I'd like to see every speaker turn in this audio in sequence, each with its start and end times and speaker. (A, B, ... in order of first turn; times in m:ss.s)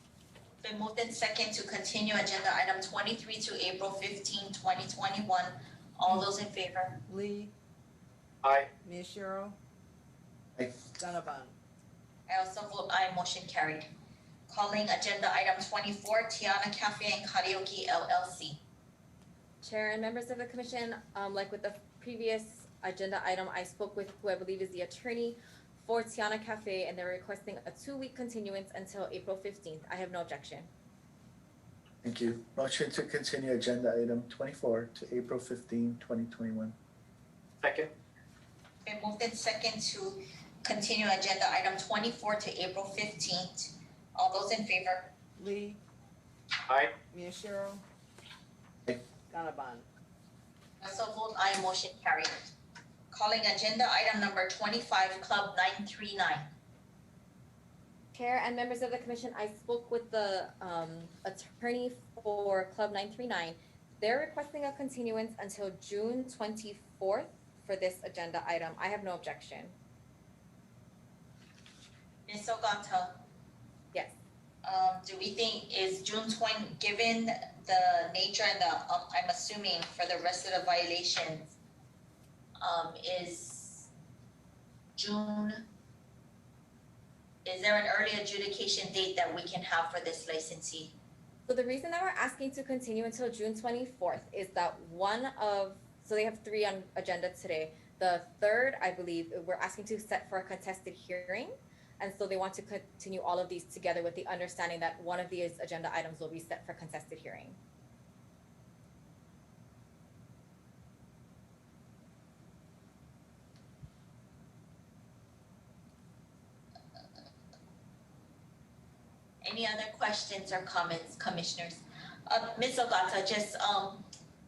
0:00.6-0:07.0 A
0:07.1-0:07.5 B
0:08.8-0:09.6 B
0:11.0-0:11.6 B
0:12.3-0:13.9 A
0:14.5-0:18.6 A
0:19.6-0:30.7 C
0:32.0-0:36.7 D
0:38.8-0:45.1 A
0:45.4-0:45.8 B
0:47.1-0:47.8 B
0:49.3-0:49.8 B
0:50.8-0:52.5 A
0:53.1-0:56.5 A
0:58.1-1:09.7 C
1:12.3-1:13.2 A
1:14.6-1:21.5 A
1:22.6-1:23.9 A
1:25.0-1:25.6 A
1:27.4-1:30.9 A
1:31.4-1:47.6 C
1:59.4-2:04.1 A